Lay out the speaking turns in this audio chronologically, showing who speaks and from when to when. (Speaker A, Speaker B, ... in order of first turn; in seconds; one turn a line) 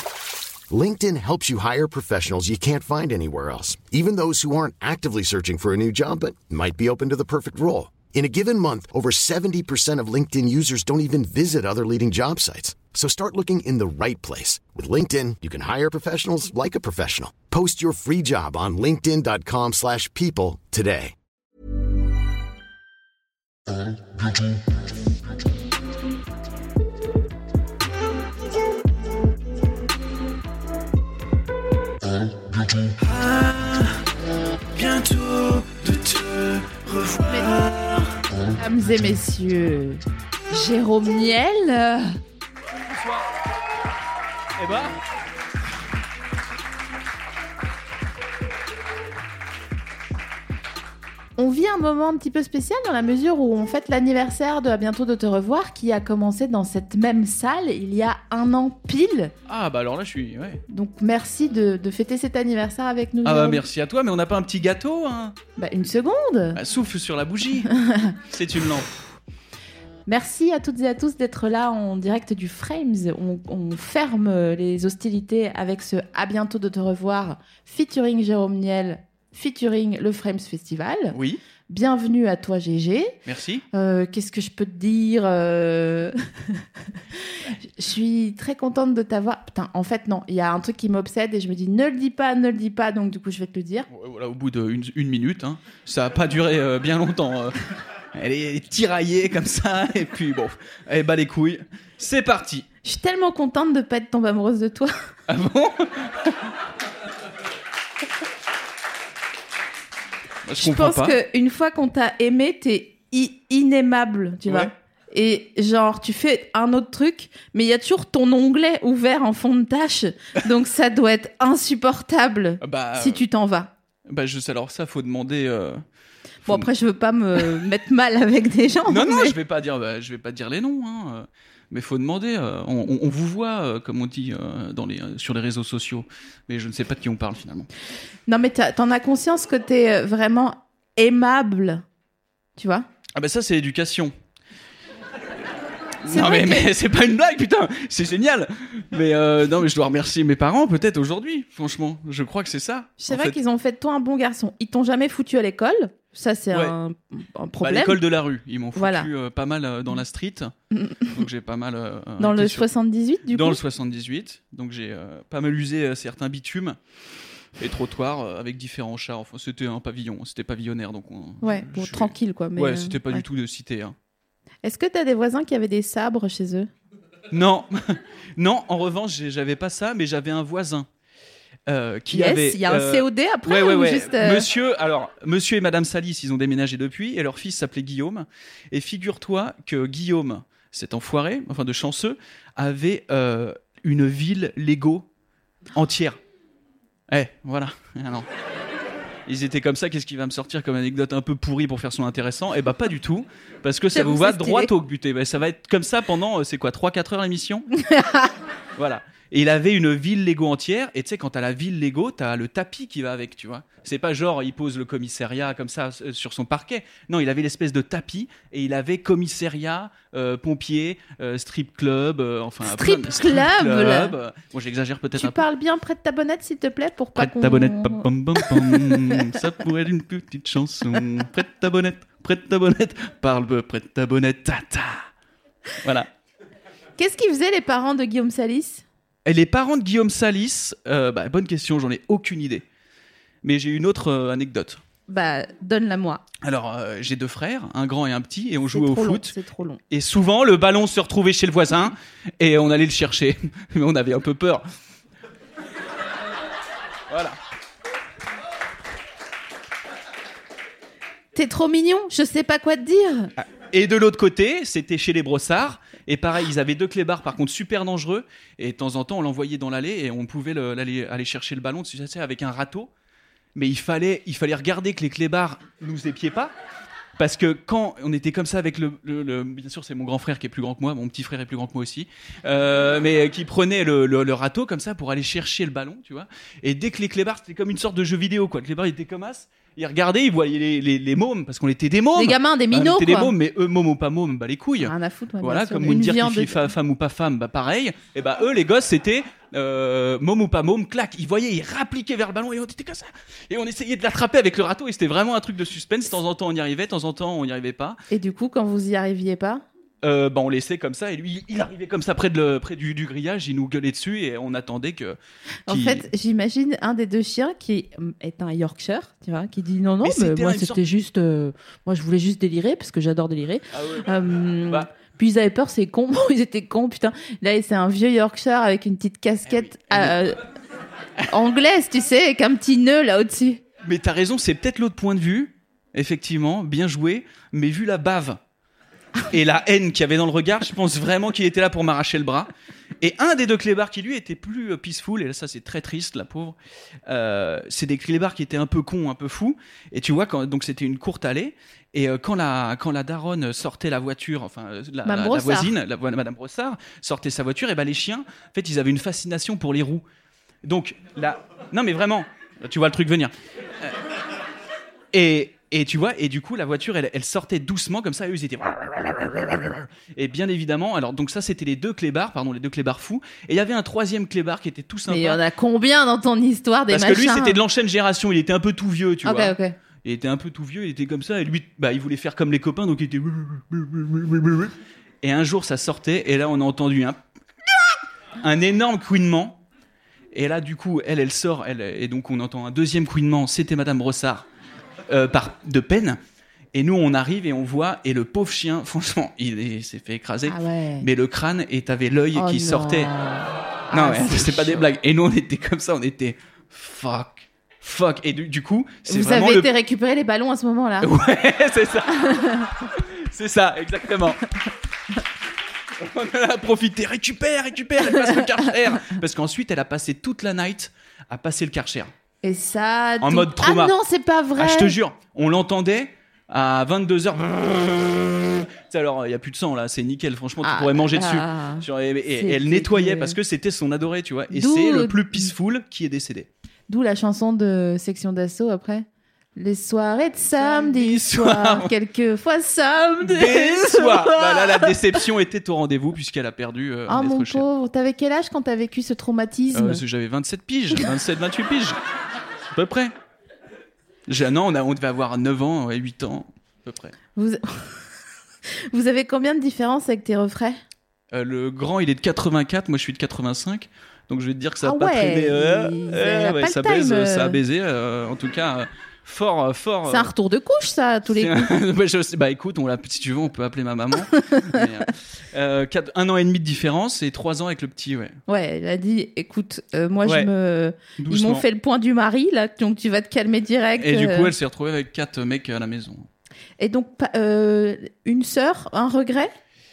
Speaker A: 0.7-21.1
Speaker B: 33.0-34.0
Speaker B: 34.8-38.1
Speaker C: 37.3-37.5
Speaker C: 38.5-42.2
Speaker B: 42.9-43.2
Speaker B: 44.6-45.0
Speaker C: 51.4-59.3
Speaker B: 59.5-60.6
Speaker C: 60.7-63.6
Speaker B: 63.2-65.4
Speaker C: 65.6-66.6
Speaker B: 66.5-68.9
Speaker C: 67.7-68.2
Speaker C: 70.1-81.2
Speaker B: 81.1-81.4
Speaker C: 81.7-83.2
Speaker B: 83.3-83.6
Speaker C: 83.7-86.6
Speaker C: 87.1-93.9
Speaker B: 93.9-97.6
Speaker B: 98.2-102.7
Speaker C: 102.8-104.9
Speaker B: 105.3-106.4
Speaker B: 110.5-111.2
Speaker C: 110.6-123.7
Speaker B: 114.5-114.7
Speaker B: 122.6-123.2
Speaker B: 124.1-125.8
Speaker C: 126.5-129.4
Speaker B: 128.9-137.7
Speaker C: 138.3-141.8
Speaker C: 142.6-142.9
Speaker B: 143.2-144.1
Speaker B: 146.0-153.4
Speaker C: 146.1-146.7
Speaker C: 153.0-158.0
Speaker B: 157.6-160.5
Speaker C: 158.8-159.1
Speaker C: 160.8-161.1
Speaker B: 161.1-162.7
Speaker C: 162.2-163.6
Speaker B: 163.3-166.8
Speaker B: 167.6-173.9
Speaker C: 171.4-173.2
Speaker C: 174.6-176.7
Speaker B: 177.3-180.9
Speaker B: 181.7-195.1
Speaker C: 182.1-184.5
Speaker B: 195.8-196.2
Speaker B: 197.1-198.3
Speaker B: 199.3-207.7
Speaker C: 203.9-204.7
Speaker C: 207.8-208.3
Speaker B: 208.8-225.4
Speaker C: 222.7-224.1
Speaker C: 225.2-229.4
Speaker B: 227.2-235.1
Speaker B: 235.8-236.1
Speaker C: 237.0-238.8
Speaker B: 239.2-242.7
Speaker B: 243.4-244.8
Speaker C: 245.1-246.2
Speaker B: 246.4-249.3
Speaker C: 248.7-249.8
Speaker B: 249.9-254.6
Speaker B: 257.1-257.4
Speaker C: 261.4-263.3
Speaker B: 263.7-272.9
Speaker B: 273.6-276.5
Speaker B: 277.2-308.0
Speaker C: 292.2-293.3
Speaker C: 294.8-296.6
Speaker C: 308.1-309.6
Speaker B: 310.0-315.2
Speaker C: 315.7-330.4
Speaker B: 315.7-316.1
Speaker B: 320.0-320.8
Speaker B: 323.7-324.1
Speaker B: 329.5-330.2
Speaker C: 331.3-333.6
Speaker B: 333.8-338.4
Speaker B: 339.3-342.5
Speaker B: 343.0-360.0
Speaker C: 355.1-355.7
Speaker B: 360.6-363.9
Speaker B: 365.1-375.4
Speaker C: 375.1-377.6
Speaker B: 376.9-387.2
Speaker C: 379.2-379.8
Speaker B: 388.4-389.6
Speaker B: 390.3-394.4
Speaker B: 395.1-396.2
Speaker B: 396.8-403.1
Speaker C: 400.5-401.1
Speaker C: 402.4-404.9
Speaker B: 403.9-409.7
Speaker C: 409.1-411.1
Speaker B: 411.0-414.4
Speaker C: 412.2-412.7
Speaker B: 416.0-422.1
Speaker C: 418.0-418.5
Speaker C: 422.4-425.0
Speaker B: 423.2-423.9
Speaker B: 424.6-436.5
Speaker C: 430.6-433.4
Speaker C: 434.5-435.5
Speaker C: 436.9-445.2
Speaker B: 440.6-441.9
Speaker B: 443.2-447.6
Speaker C: 447.1-450.0
Speaker B: 449.7-451.9
Speaker B: 452.7-453.1
Speaker B: 454.3-457.1
Speaker C: 457.4-458.0
Speaker C: 458.9-460.8
Speaker B: 461.3-470.3
Speaker C: 464.8-467.6
Speaker C: 470.1-471.6
Speaker B: 471.3-478.4
Speaker C: 474.3-474.8
Speaker C: 478.5-484.5
Speaker B: 480.2-480.5
Speaker B: 481.2-481.6
Speaker B: 484.0-486.3
Speaker C: 486.8-489.5